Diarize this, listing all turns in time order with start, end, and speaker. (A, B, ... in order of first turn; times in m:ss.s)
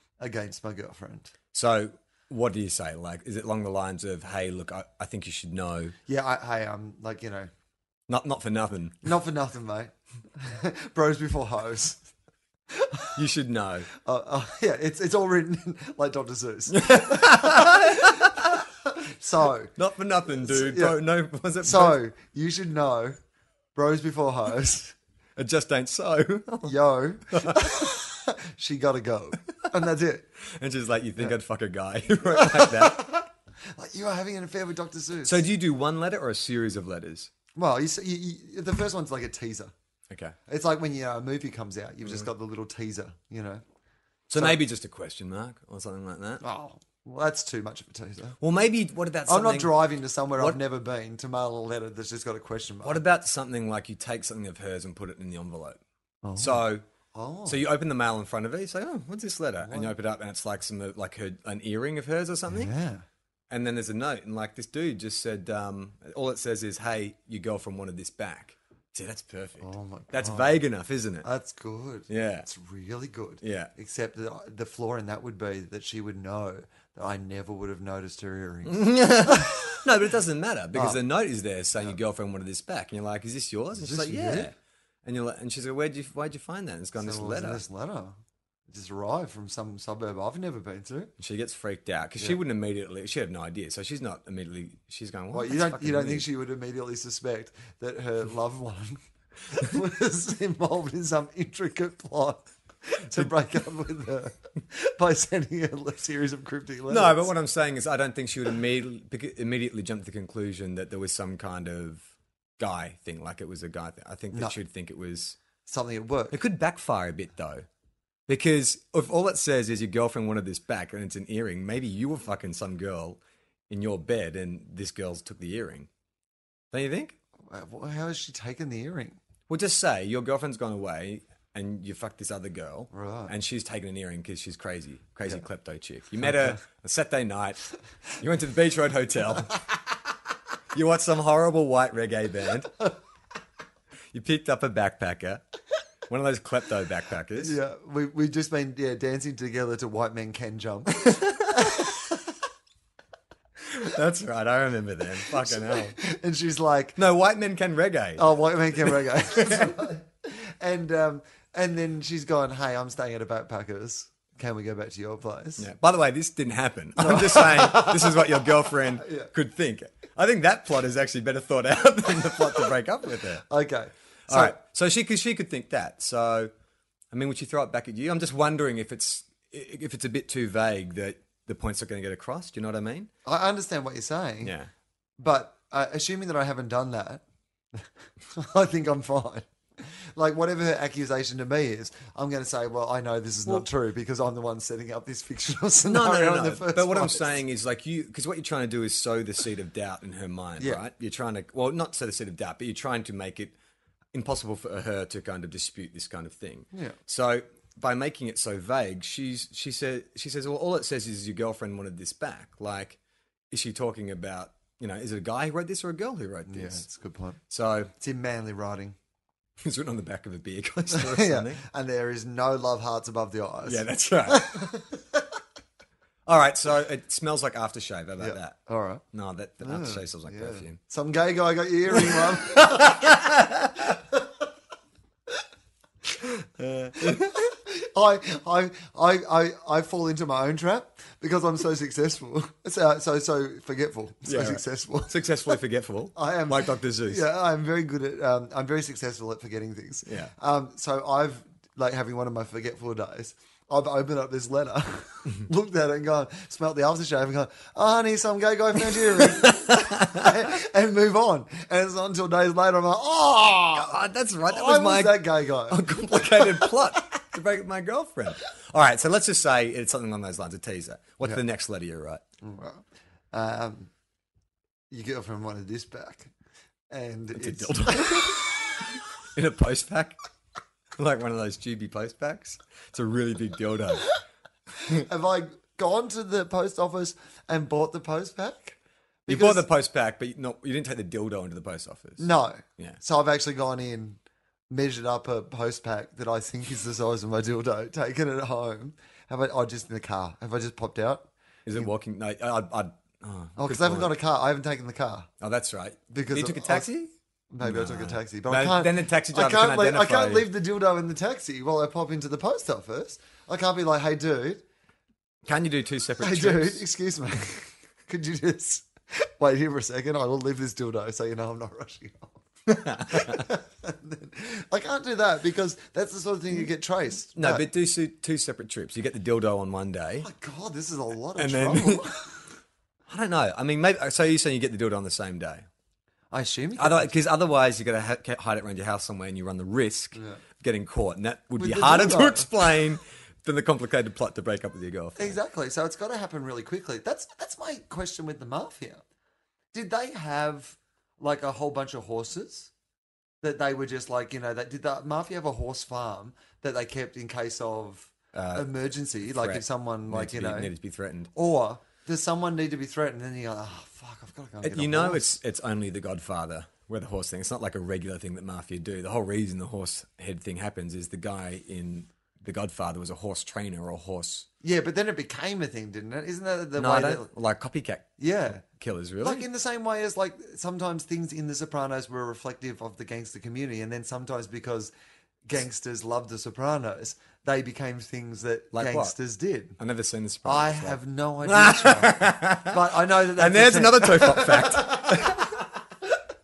0:00.2-0:01.3 A
0:01.5-0:06.0 B
0:06.1-0:07.5 A
0:08.1-0:09.0 B
0:09.0-0:12.0 A
0:12.7-0:13.2 A
0:13.2-0:13.9 B
0:14.0-0:19.7 A
0:16.7-0:18.7 B
0:19.8-0:22.0 B
0:20.4-0:21.0 A
0:21.6-0:23.2 A
0:23.8-0:25.0 A
0:25.4-0:26.7 B
0:26.7-0:30.3 A
0:27.3-0:27.9 B
0:30.4-0:33.1 B
0:32.3-0:35.4 A
0:35.2-0:37.3 B
0:37.6-0:39.7 A
0:40.1-0:40.4 B
0:40.5-0:43.6 A
0:44.3-0:46.4 B
0:46.4-0:48.4 A
0:48.4-0:49.9 B
0:49.3-0:53.0 A
0:52.8-0:55.8 B
0:56.2-0:57.6 A
0:56.4-0:56.8 B
0:57.5-1:02.7 B
0:59.6-1:00.0 A
1:02.5-1:03.0 A
1:03.5-1:11.3 B
1:09.6-1:10.5 A
1:11.2-1:19.9 A
1:12.1-1:12.5 B
1:13.4-1:13.7 B
1:18.7-1:27.6 B
1:20.7-1:21.0 A
1:23.8-1:24.5 A
1:27.0-1:28.2 A
1:28.7-1:31.1 A
1:31.2-1:36.2 B
1:35.3-1:47.3 A
1:46.9-1:52.1 B
1:52.6-1:55.4 B
1:55.7-1:56.4 A
1:56.3-1:57.7 B
1:58.3-2:05.9 B
2:06.7-2:07.2 B
2:07.5-2:09.2 A
2:09.5-2:17.6 B
2:12.9-2:13.3 A
2:18.2-2:19.8 B
2:20.7-2:22.7 B
2:24.1-2:25.4 B
2:26.1-2:27.6 B
2:27.4-2:32.2 A
2:31.0-2:31.8 B
2:33.6-2:36.0 B
2:35.3-2:37.0 A
2:37.0-2:39.8 B
2:38.2-2:45.7 A
2:45.6-2:53.4 B
2:47.0-2:49.3 A
2:53.5-2:54.6 A
2:54.3-2:56.5 B
2:57.1-3:03.1 B
3:03.2-3:04.6 A
3:04.4-3:04.7 B
3:05.2-3:07.2 A
3:07.8-3:17.4 A
3:15.8-3:23.6 B
3:24.1-3:33.0 B
3:33.5-3:36.9 B
3:36.5-3:37.4 A
3:37.5-3:37.9 B
3:38.0-3:39.0 A
3:39.6-3:41.6 B
3:40.9-3:45.2 A
3:43.6-3:44.7 B
3:46.3-3:48.6 B
3:48.2-3:49.0 A
3:49.1-3:50.8 B
3:49.6-3:54.3 A
3:51.9-3:53.9 B
3:56.2-4:05.6 A
4:04.3-4:07.2 B
4:06.2-4:24.0 A
4:10.1-4:10.3 B
4:18.9-4:20.4 B
4:23.8-4:32.2 B
4:24.5-4:27.1 A
4:32.4-4:33.9 A
4:34.9-4:36.3 A
4:36.9-4:38.6 A
4:37.3-4:38.5 B
4:39.3-4:40.2 B
4:41.0-4:44.1 B
4:44.8-4:49.6 A
4:49.3-4:53.0 B
4:52.2-4:54.2 A
4:54.7-5:01.9 A
5:01.7-5:04.1 B
5:03.6-5:05.3 A
5:05.4-5:10.5 B
5:06.1-5:06.9 A
5:07.5-5:14.6 A
5:15.4-5:16.8 B
5:16.2-5:27.7 A
5:22.7-5:23.5 B
5:27.4-5:30.3 B
5:30.2-5:32.5 A
5:31.4-5:32.1 B
5:33.1-5:35.7 B
5:36.3-5:37.2 A
5:36.8-5:45.4 B
5:40.2-5:40.4 A
5:41.6-5:42.6 A
5:45.2-5:49.0 A
5:49.7-5:52.7 A
5:53.4-6:00.7 A
5:58.3-5:58.7 B
5:59.2-6:01.3 B
6:01.3-6:05.3 A
6:04.6-6:14.5 B
6:14.6-6:17.3 A
6:16.8-6:19.5 B
6:18.2-6:18.6 A
6:19.2-6:24.9 A
6:25.5-6:29.8 A
6:28.7-6:29.1 B
6:29.8-6:35.5 B
6:30.4-6:35.6 A